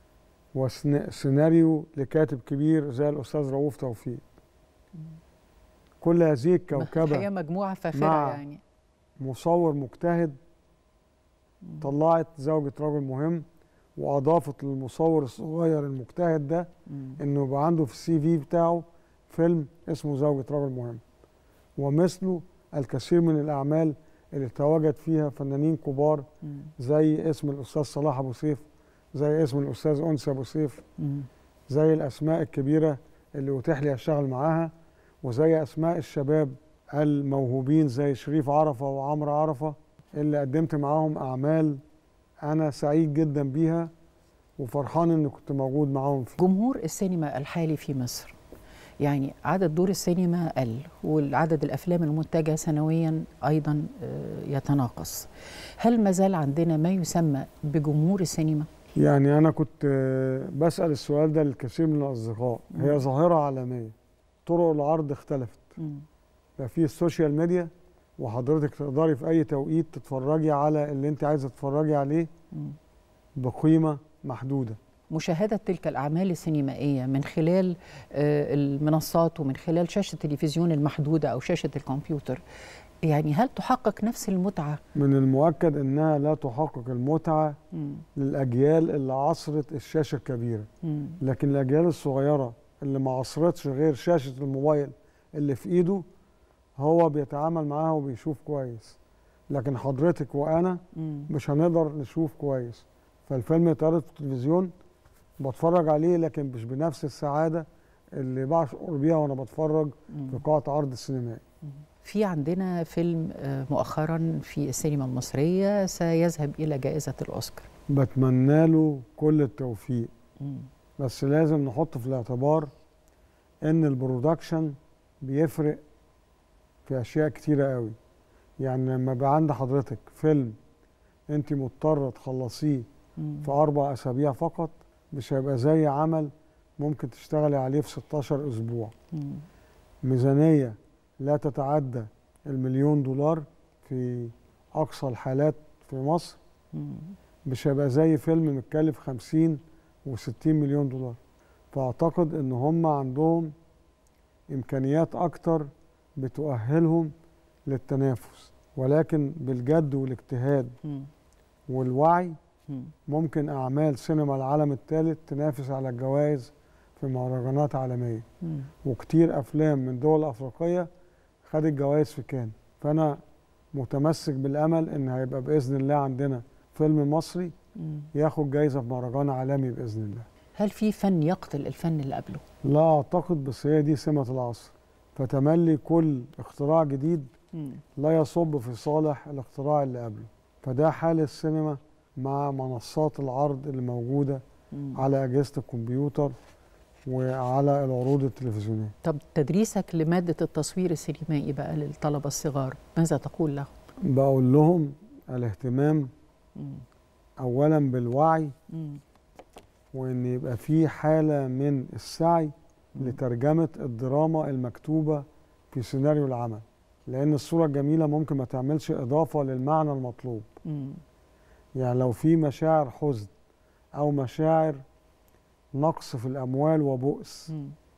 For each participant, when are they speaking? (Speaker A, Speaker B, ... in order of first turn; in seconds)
Speaker A: 0.5-4.2, 6.0-7.3, 7.9-8.4, 9.2-10.4, 11.8-21.0, 21.8-30.8, 31.7-41.8, 42.4-43.9, 44.6-46.4, 59.0-65.8, 66.6-72.3, 73.4-74.8, 85.0-87.6, 88.2-90.7, 91.2-96.0, 96.8-99.0, 99.5-104.7, 105.4-111.4, 117.9-120.1, 121.0-122.7, 123.6-125.8, 126.9-128.0, 128.6-130.6, 131.3-132.9, 133.4-138.9, 140.0-146.4, 147.4-151.2, 151.7-153.5, 154.5-157.1, 157.7-160.8, 161.7-162.4, 163.1-168.3, 168.8-170.9, 171.4-173.2, 173.7-177.5, 178.1-180.3, 182.6-187.3, 188.0-194.4, 195.0-196.3, 197.1-198.9, 204.1-206.1, 207.4-208.6, 209.9-220.5, 221.8-223.3, 224.0-224.8, 225.8-227.5
Speaker B: 6.7-8.6, 16.9-17.2, 31.0-31.3, 46.4-48.4, 49.0-55.3, 55.8-58.7, 62.8-63.0, 65.8-66.0, 75.1-82.4, 83.0-84.8, 87.7-88.0, 90.8-91.2, 101.0-101.3, 110.1-110.4, 112.0-117.7, 133.2-133.5, 139.1-139.4, 146.7-147.1, 168.4-168.7, 177.8-178.1, 180.6-182.4, 187.6-187.8, 194.7-195.0, 199.0-203.7, 206.6-206.8, 208.7-209.0, 220.7-221.0, 227.5-227.8